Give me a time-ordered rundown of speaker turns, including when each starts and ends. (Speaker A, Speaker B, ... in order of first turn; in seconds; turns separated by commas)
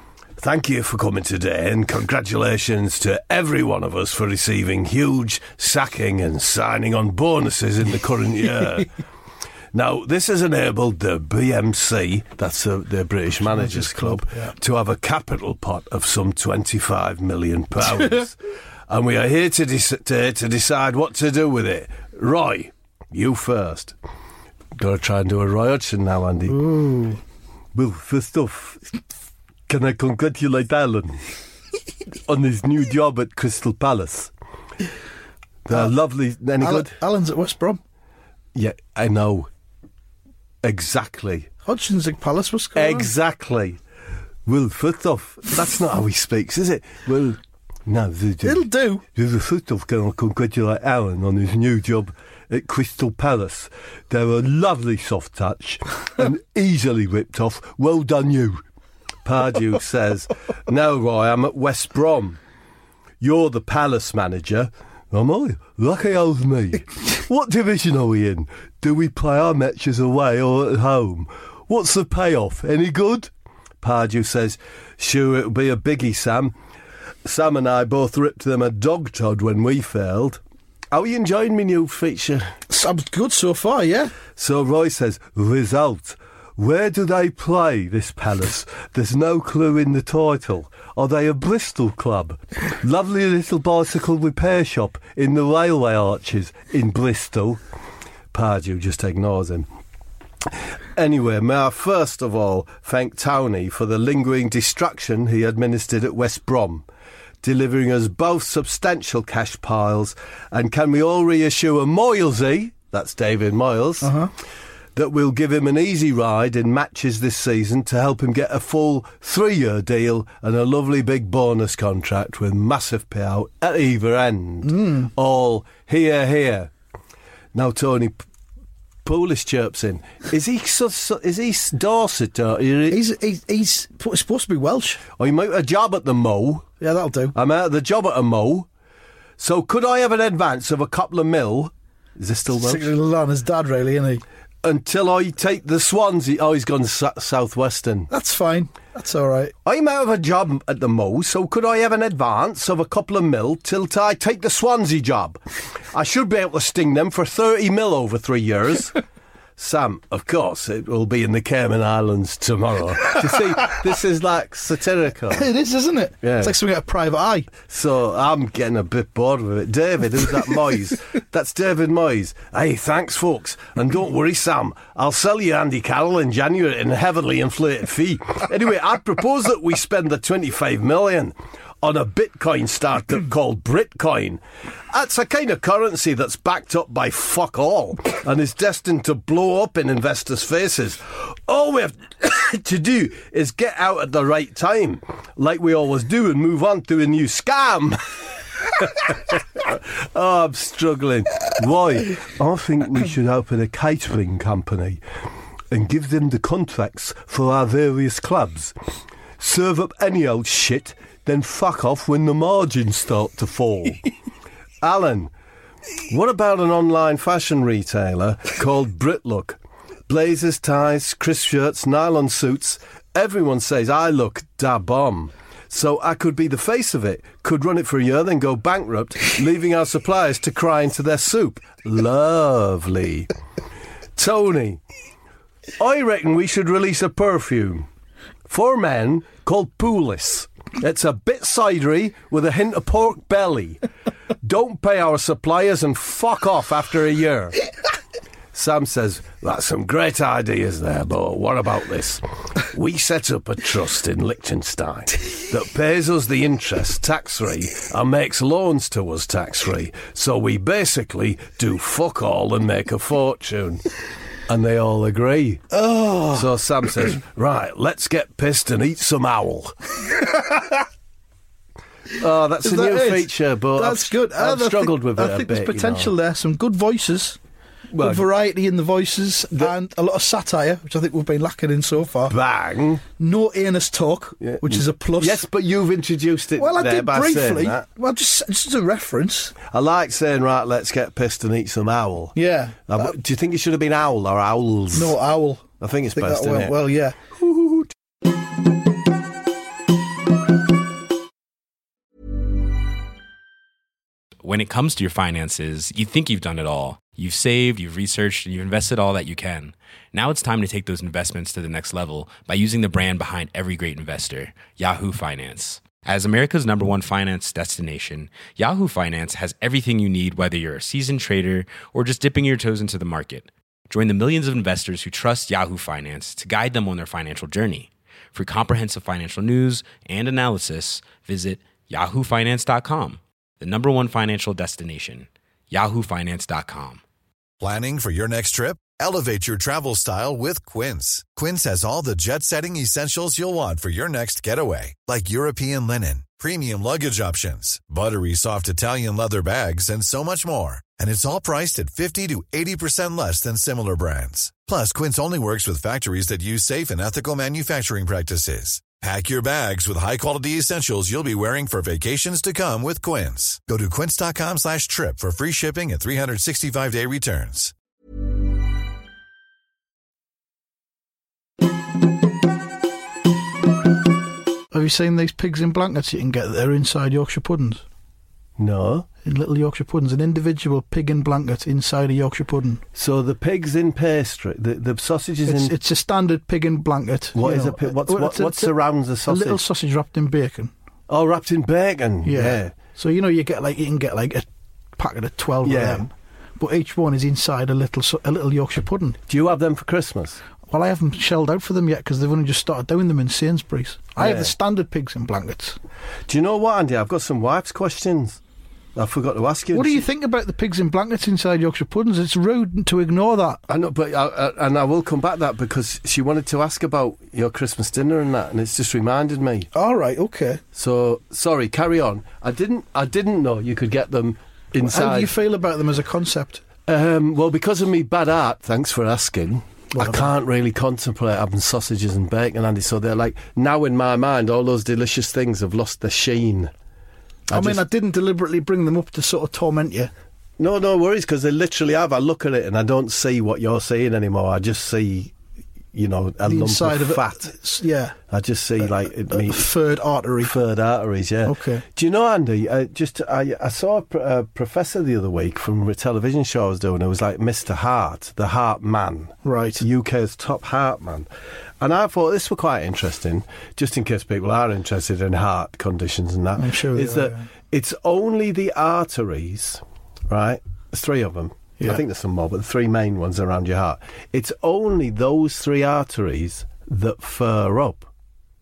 Speaker A: 0.4-8.9, Speaker A: 9.7-18.4, Speaker B: 13.5-14.5, Speaker A: 18.9-23.9, Speaker A: 24.8-26.6, Speaker B: 26.5-27.2, Speaker A: 27.7-28.8, Speaker A: 29.7-31.2, Speaker A: 32.3-34.3, Speaker A: 35.6-36.9, Speaker B: 36.6-37.8, Speaker A: 38.5-39.5, Speaker A: 40.6-41.5, Speaker B: 41.6-43.1, Speaker A: 42.8-43.8, Speaker A: 44.5-58.6, Speaker B: 48.4-49.0, Speaker A: 59.2-62.4, Speaker A: 63.2-73.3, Speaker A: 73.8-76.5, Speaker A: 77.2-80.4, Speaker A: 80.9-82.5, Speaker B: 82.7-84.1, Speaker A: 84.3-97.6, Speaker A: 98.3-99.7, Speaker A: 100.5-106.8, Speaker A: 107.4-114.1, Speaker B: 114.0-114.3, Speaker A: 115.0-126.7, Speaker B: 124.6-125.1, Speaker A: 127.5-128.2, Speaker A: 129.0-133.0, Speaker B: 132.9-135.0, Speaker A: 135.2-136.7, Speaker B: 136.8-137.3, Speaker A: 137.3-138.7, Speaker A: 139.4-142.9, Speaker B: 142.5-144.2, Speaker A: 144.6-148.1, Speaker B: 148.1-149.5, Speaker A: 149.6-155.4, Speaker A: 155.9-159.0, Speaker A: 159.6-165.4, Speaker B: 165.3-167.5, Speaker A: 166.2-166.5, Speaker A: 167.6-205.0, Speaker A: 205.7-208.7, Speaker A: 209.4-214.0, Speaker A: 214.8-215.3, Speaker A: 216.1-233.3, Speaker A: 234.2-234.8, Speaker A: 235.8-237.9, Speaker A: 238.5-243.8, Speaker A: 244.4-247.6, Speaker A: 248.5-263.8, Speaker A: 264.5-265.7, Speaker B: 265.7-266.5, Speaker A: 266.3-269.8, Speaker A: 272.1-276.1, Speaker B: 272.6-277.4, Speaker A: 277.9-278.3, Speaker B: 278.0-282.3, Speaker A: 282.3-283.0, Speaker B: 283.2-285.4, Speaker A: 284.4-287.8, Speaker B: 286.6-289.5, Speaker A: 289.7-292.4, Speaker B: 292.3-293.1, Speaker A: 292.9-295.1, Speaker B: 294.9-297.2, Speaker A: 295.8-296.7, Speaker A: 297.4-297.9, Speaker C: 304.4-337.0, Speaker D: 337.6-367.7, Speaker B: 374.7-377.8, Speaker A: 378.6-379.1, Speaker B: 379.2-382.8, Speaker A: 382.9-385.7, Speaker B: 385.4-388.7, Speaker A: 387.3-389.6, Speaker B: 389.3-390.7, Speaker A: 391.1-392.7, Speaker B: 392.2-399.2, Speaker A: 395.6-396.0, Speaker A: 399.3-400.4, Speaker B: 400.7-405.8, Speaker A: 404.2-404.5, Speaker A: 406.3-408.4, Speaker A: 408.9-410.0, Speaker B: 409.7-413.6, Speaker A: 413.7-419.7, Speaker B: 419.7-420.6, Speaker A: 420.7-425.3, Speaker B: 424.8-426.6, Speaker A: 426.9-436.7, Speaker B: 429.9-430.3, Speaker B: 437.5-440.1, Speaker A: 437.5-437.8, Speaker A: 440.6-445.3, Speaker A: 445.9-447.5, Speaker B: 446.4-448.1, Speaker A: 448.3-449.7, Speaker B: 449.3-450.5, Speaker A: 450.4-461.3, Speaker B: 451.4-451.8, Speaker B: 459.4-459.8, Speaker A: 461.8-478.1, Speaker B: 466.6-467.4